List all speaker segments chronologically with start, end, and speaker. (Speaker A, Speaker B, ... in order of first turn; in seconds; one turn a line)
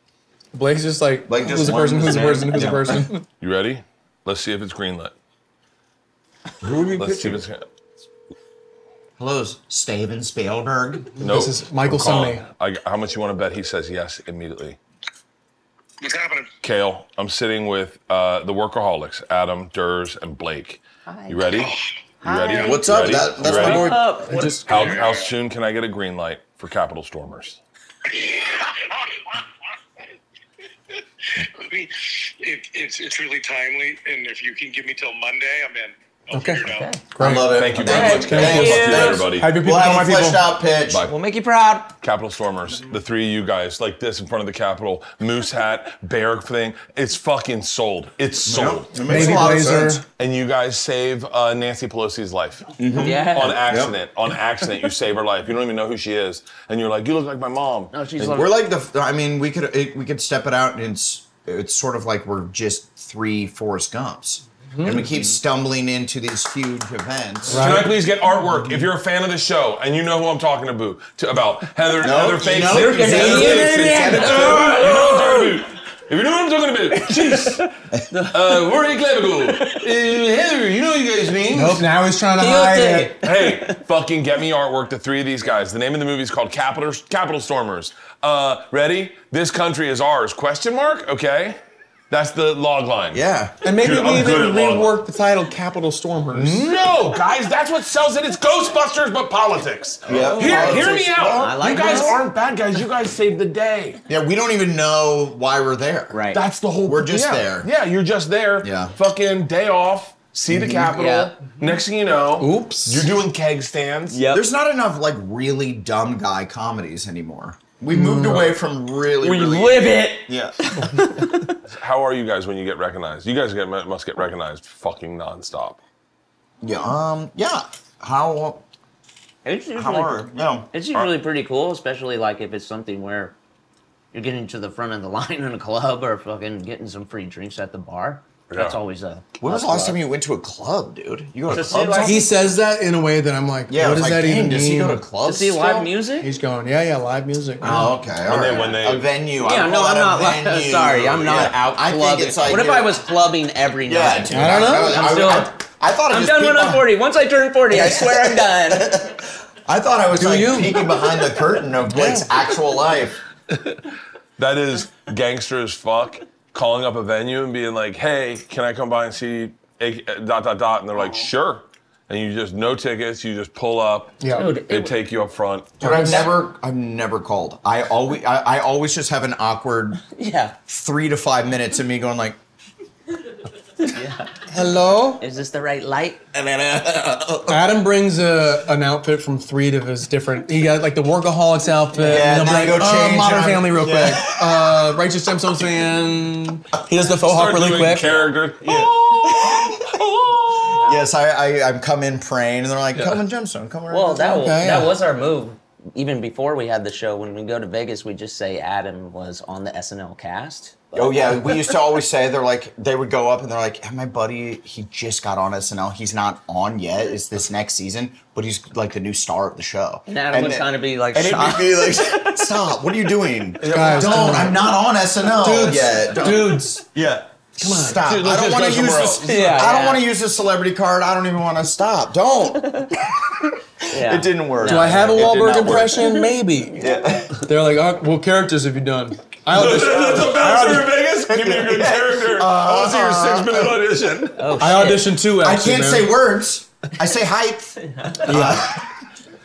Speaker A: 0.5-3.2
Speaker B: 1.3-3.1
Speaker C: 3.4-5.1
Speaker B: 6.6-7.4
Speaker C: 7.0-7.7
Speaker B: 9.2-11.2
Speaker C: 11.2-14.8
Speaker A: 11.2-12.4
Speaker D: 16.0-16.5
Speaker C: 16.6-24.1
Speaker E: 21.1-21.6
Speaker E: 22.2-24.9
Speaker B: 22.5-24.2
Speaker A: 24.2-25.0
Speaker C: 24.6-27.6
Speaker D: 24.7-25.3
Speaker D: 28.1-29.4
Speaker D: 31.4-37.0
Speaker A: 36.3-40.5
Speaker E: 36.6-37.0
Speaker B: 37.2-41.1
Speaker C: 37.4-39.5
Speaker E: 37.7-39.3
Speaker C: 40.9-41.1
Speaker E: 41.1-42.0
Speaker C: 42.0-49.4
Speaker B: 48.4-50.0
Speaker A: 49.0-50.0
Speaker C: 50.2-57.9
Speaker B: 52.8-53.9
Speaker E: 53.0-53.6
Speaker E: 57.9-58.6
Speaker B: 58.2-67.9
Speaker A: 64.8-65.1
Speaker C: 67.5-77.7
Speaker A: 67.5-67.9
Speaker B: 68.4-68.8
Speaker B: 72.0-74.9
Speaker E: 72.7-75.5
Speaker A: 73.0-73.6
Speaker E: 77.0-78.5
Speaker C: 78.3-81.8
Speaker E: 79.4-79.8
Speaker A: 81.5-83.1
Speaker E: 82.3-83.8
Speaker C: 83.2-95.0
Speaker B: 93.1-93.6
Speaker A: 93.6-96.7
Speaker C: 96.3-104.0
Speaker E: 100.0-102.2
Speaker B: 100.0-102.2
Speaker B: 104.1-106.2
Speaker E: 106.1-106.4
Speaker C: 106.3-114.2
Speaker B: 106.8-107.7
Speaker B: 108.6-108.9
Speaker B: 110.5-110.8
Speaker E: 110.9-111.3
Speaker A: 112.4-113.1
Speaker E: 114.1-114.4
Speaker B: 114.2-120.5
Speaker A: 117.9-118.5
Speaker E: 119.2-121.5
Speaker C: 121.7-125.8
Speaker B: 126.6-128.6
Speaker E: 129.4-133.3
Speaker B: 129.7-130.7
Speaker E: 134.1-140.0
Speaker C: 138.5-138.8
Speaker B: 139.4-142.3
Speaker E: 141.5-142.6
Speaker A: 142.0-145.0
Speaker B: 143.7-145.9
Speaker E: 145.2-146.3
Speaker A: 146.2-147.9
Speaker B: 147.6-153.0
Speaker C: 148.2-149.1
Speaker E: 149.4-159.0
Speaker B: 153.8-156.9
Speaker A: 154.3-155.1
Speaker B: 157.7-163.2
Speaker A: 160.1-160.9
Speaker A: 161.9-162.3
Speaker C: 163.5-163.8
Speaker C: 164.4-175.8
Speaker A: 174.2-174.5
Speaker E: 174.3-174.9
Speaker A: 175.8-176.3
Speaker B: 175.8-180.0
Speaker E: 175.9-176.4
Speaker E: 180.1-180.6
Speaker B: 180.6-182.4
Speaker E: 183.8-184.5
Speaker A: 184.5-185.2
Speaker E: 185.2-186.3
Speaker B: 186.3-187.8
Speaker A: 187.5-198.3
Speaker B: 191.9-194.9
Speaker C: 197.2-200.8
Speaker B: 198.6-204.6
Speaker E: 200.7-200.9
Speaker C: 202.9-203.2
Speaker E: 203.9-211.7
Speaker A: 204.3-204.9
Speaker B: 210.9-236.1
Speaker E: 220.1-222.8
Speaker C: 223.6-224.5
Speaker A: 223.7-224.7
Speaker A: 225.3-226.8
Speaker C: 225.6-226.6
Speaker A: 227.6-228.0
Speaker C: 228.0-229.6
Speaker E: 229.2-230.1
Speaker E: 233.9-236.2
Speaker A: 234.6-236.8
Speaker B: 236.8-237.4
Speaker A: 237.4-241.1
Speaker C: 239.5-244.7
Speaker B: 241.3-243.8
Speaker E: 244.4-245.2
Speaker A: 244.6-246.1
Speaker B: 245.3-248.9
Speaker A: 248.2-248.8